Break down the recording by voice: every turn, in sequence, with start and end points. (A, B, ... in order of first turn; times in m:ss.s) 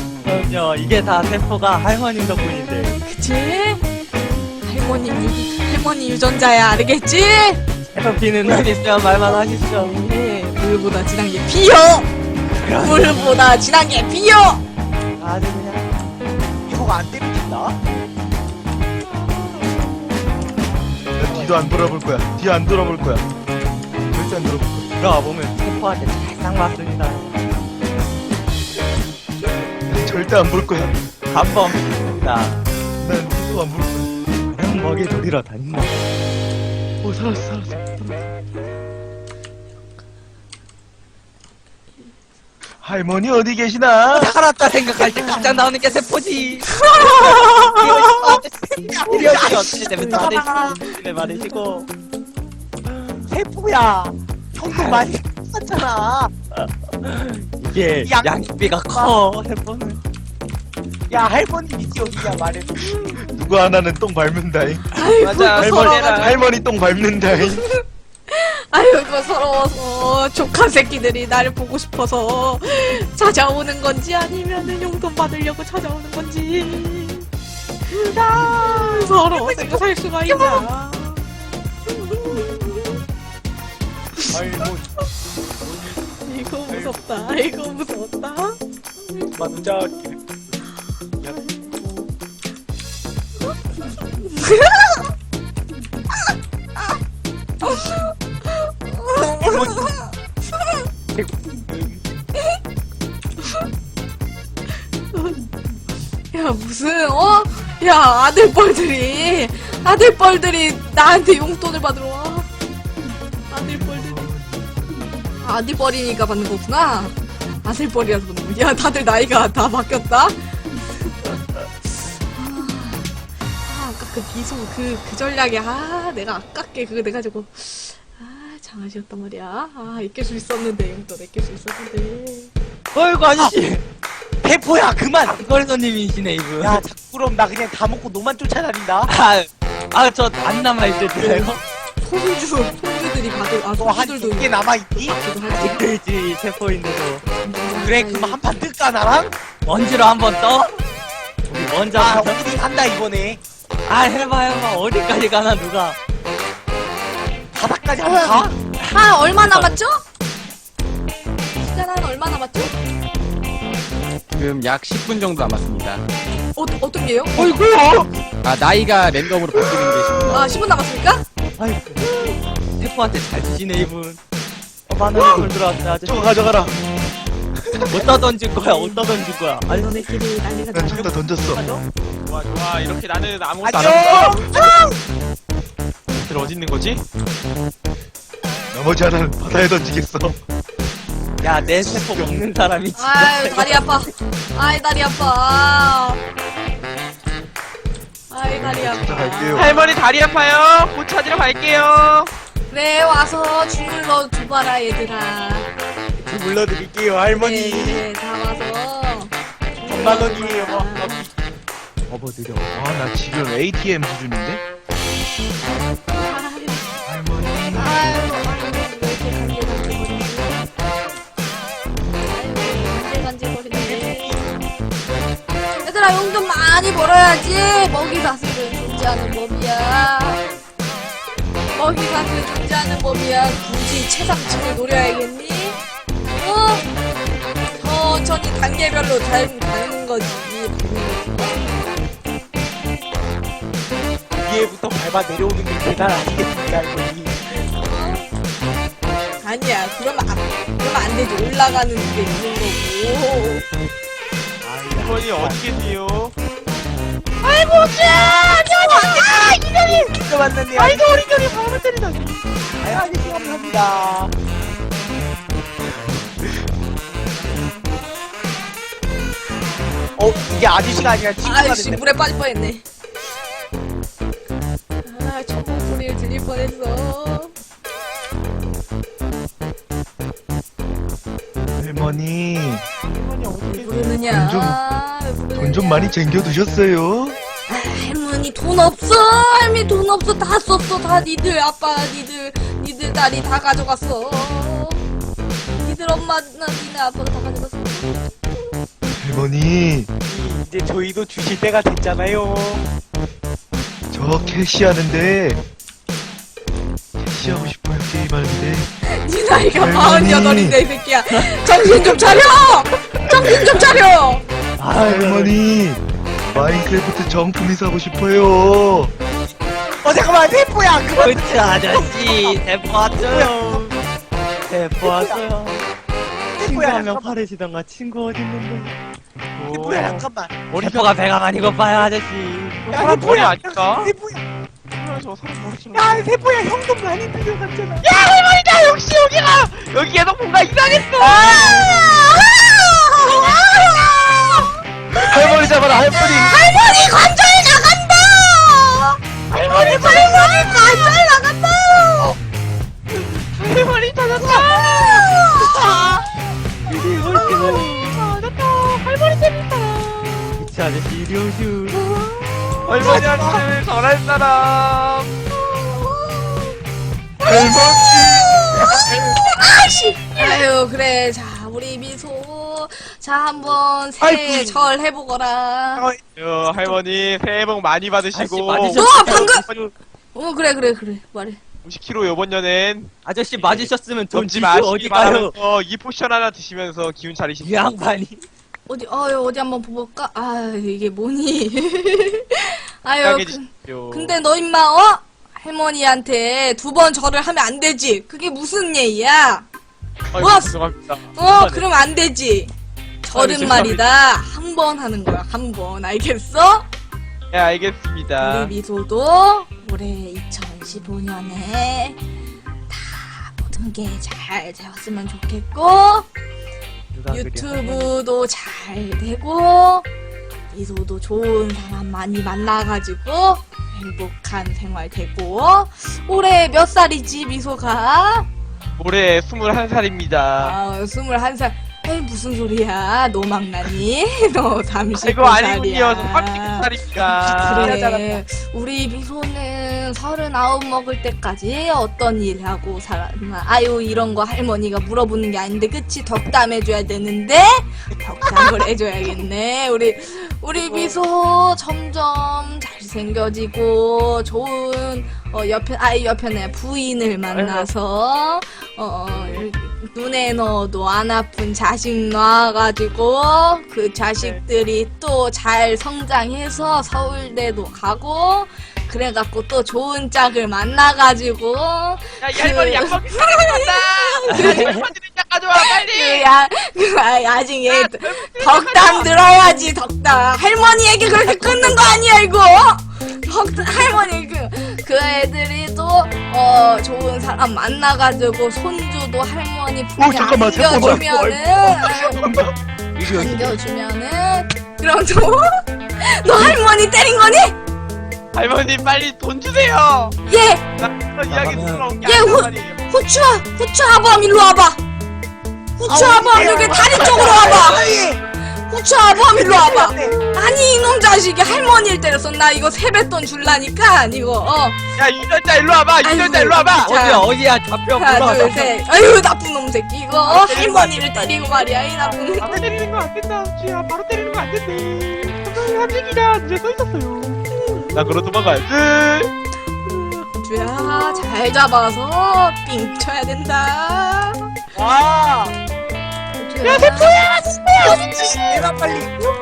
0:00.2-0:03.0 A
0:03.0-0:03.9 B
0:04.6-0:07.6 B
0:07.9-0:10.0 A
0:09.2-0:12.1 B
0:12.5-0:13.4 A
0:12.7-0:14.6 B
0:15.2-0:15.9 A
0:16.7-0:17.8 C
0:21.2-0:23.3 D
0:24.0-0:24.9 D
0:25.0-0:27.4 A
0:29.9-0:31.0 D
0:31.3-0:32.7 A
0:33.0-0:34.2 D
0:34.5-0:36.0 A
0:37.0-0:38.3 D
0:42.8-0:44.3 D
0:44.1-0:46.9 A
0:45.0-0:45.7 C
0:46.7-0:47.9 B
0:47.1-0:50.8 C
0:47.7-0:51.9 A
0:53.3-0:56.3 C
0:54.7-0:55.1 A
0:56.5-1:00.0 A
0:58.0-0:58.4 C
1:01.1-1:03.2 C
1:02.9-1:05.0 D
1:04.9-1:06.4 B
1:05.2-1:06.4 E
1:05.5-1:07.6 D
1:07.3-1:17.3 B
1:17.9-1:20.7 C
1:18.3-1:21.2 B
1:21.9-1:23.0 B
1:24.3-1:24.9 C
1:25.6-1:26.0 C
1:26.2-1:28.6 B
1:26.7-1:27.0 C
1:29.3-1:30.2 C
1:31.3-1:31.8 B
1:34.1-1:35.1 B
1:37.6-1:40.1 B
1:39.1-1:39.9 C
1:41.2-1:42.0 C
1:45.1-1:45.4 B
1:46.3-1:52.5 B
1:53.5-1:54.3 B
1:53.6-1:55.0 D
1:55.4-2:00.4 B
2:02.2-2:03.1 B
2:03.6-2:12.5 B
2:12.9-2:13.8 A
2:14.4-2:15.4 C
2:15.3-2:16.8 A
2:16.6-2:19.1 C
2:19.1-2:21.6 A
2:21.2-2:25.9 B
2:23.8-2:25.2 C
2:25.4-2:27.2 A
2:27.4-2:28.4 B
2:27.8-2:29.4 C
2:29.6-2:30.8 A
2:31.5-2:32.4 A
2:32.0-2:33.4 C
2:33.9-2:36.0 A
2:37.5-2:38.6 C
2:38.1-2:40.0 B
2:41.6-2:42.8 B
2:44.4-2:46.0 F
2:46.6-2:47.6 B
2:47.4-2:48.1 D
2:48.4-2:50.4 F
2:49.5-2:50.4 D
2:50.2-2:51.2 B
2:51.6-2:54.2 A
2:54.9-2:56.4 A
2:55.1-2:55.5 D
2:56.0-2:56.8 D
2:57.9-3:00.1 A
2:58.5-3:01.2 B
3:00.7-3:01.6 D
3:01.6-3:01.8 C
3:02.2-3:04.4 E
3:03.6-3:05.0 C
3:04.1-3:04.5 D
3:06.1-3:07.0 E
3:08.7-3:10.4 D
3:11.4-3:14.0 A
3:11.7-3:12.3 D
3:13.0-3:16.2 B
3:18.3-3:20.0 B
3:18.6-3:19.7 D
3:19.5-3:22.3 E
3:22.7-3:25.7 B
3:26.2-3:28.1 C
3:27.3-3:31.3 B
3:29.8-3:31.3 C
3:32.1-3:32.7 A
3:32.7-3:34.6 D
3:36.1-3:37.0 B
3:37.0-3:38.2 D
3:37.7-3:40.7 B
3:42.2-3:44.4 B
3:43.8-3:44.5 C
3:45.8-3:50.4 B
3:51.7-3:55.8 B
3:56.4-3:56.9 B
3:57.8-4:01.8 B
4:04.4-4:07.4 C
4:07.6-4:08.3 B
4:09.4-4:13.7 B
4:14.6-4:15.5 A
4:15.0-4:16.3 E
4:17.4-4:18.5 E
4:18.1-4:21.3 C
4:18.2-4:19.1 B
4:20.7-4:22.4 E
4:22.8-4:24.3 C
4:30.2-4:32.0 C
4:31.4-4:32.8 B
4:35.0-4:37.5 B
4:41.8-4:42.9 D
4:43.1-4:44.2 C
4:43.7-4:46.2 B
4:44.3-4:44.8 D
4:45.6-4:47.4 D
4:47.7-4:55.0 B
4:55.8-4:58.3 B
4:59.2-5:00.1 D
5:00.2-5:02.8 C
5:04.1-5:05.6 D
5:07.2-5:08.9 D
5:09.0-5:14.5 B
5:09.7-5:10.8 D
5:11.4-5:12.4 A
5:14.8-5:15.6 A
5:15.0-5:19.1 D
5:20.0-5:24.0 C
5:21.1-5:24.0 A
5:24.6-5:25.8 A
5:25.0-5:25.4 C
5:26.6-5:27.3 C
5:26.6-5:29.0 A
5:29.6-5:30.1 E
5:29.6-5:30.7 C
5:29.9-5:30.3 A
5:30.7-5:31.1 E
5:30.8-5:32.9 A
5:32.9-5:34.1 E
5:32.9-5:34.4 C
5:35.0-5:36.3 E
5:35.9-5:38.1 C
5:38.0-5:41.7 E
5:41.2-5:49.2 B
5:41.3-5:42.2 C
5:45.2-5:46.6 D
5:49.5-5:50.5 E
5:49.8-5:50.7 C
5:49.8-5:52.4 B
5:53.4-5:55.2 E
5:54.4-5:55.8 B
5:55.6-5:56.2 C
5:56.9-5:58.1 A
5:56.9-6:00.5 E
5:57.3-5:57.8 B
6:00.6-6:02.0 A
6:01.9-6:03.4 B
6:02.8-6:05.3 E
6:03.0-6:03.6 C
6:05.5-6:06.8 B
6:07.4-6:16.1 B
6:07.4-6:09.1 D
6:14.2-6:14.9 C
6:16.0-6:16.2 C
6:16.4-6:19.9 E
6:18.3-6:19.7 A
6:18.9-6:19.6 B
6:20.3-6:21.6 B
6:21.8-6:28.0 E
6:23.3-6:25.5 A
6:27.6-6:28.5 A
6:28.9-6:39.7 B
6:33.2-6:34.4 E
6:40.3-6:41.8 E
6:40.4-6:40.8 B
6:41.3-6:42.7 B
6:43.2-6:46.9 B
6:43.3-6:44.0 E
6:47.5-6:48.7 E
6:48.4-6:52.2 B
6:52.9-6:56.3 B
6:57.1-6:58.1 A
6:57.3-7:00.1 B
7:00.7-7:08.5 B
7:09.0-7:10.8 E
7:10.6-7:55.0 B
7:15.2-7:18.1 E
7:17.2-7:18.4 C
7:28.5-7:28.8 C
7:30.8-7:31.2 E
7:37.5-7:37.9 E
7:52.4-7:56.5 E
7:54.5-7:55.1 A
7:55.7-8:12.5 B
7:57.9-7:59.3 E
8:01.4-8:01.9 E
8:10.2-8:13.8 D
8:13.2-8:17.8 B
8:18.5-8:20.4 E
8:20.4-8:20.8 B
8:21.0-8:23.1 E
8:21.5-8:22.1 A
8:22.2-8:25.0 B
8:26.0-8:35.0 B
8:26.0-8:28.4 C
8:29.3-8:30.4 C
8:35.2-8:37.1 E
8:36.2-8:37.5 B
8:37.0-8:39.0 A
8:38.2-8:42.8 B
8:40.4-8:41.9 E
8:42.5-8:47.6 E
8:42.6-8:43.6 C
8:44.4-8:45.7 C
8:47.7-8:48.2 B
8:48.1-8:49.5 E
8:50.0-8:54.7 B
8:55.0-8:55.8 C
8:56.6-8:57.3 B
8:56.8-8:59.5 C
8:56.9-8:58.7 E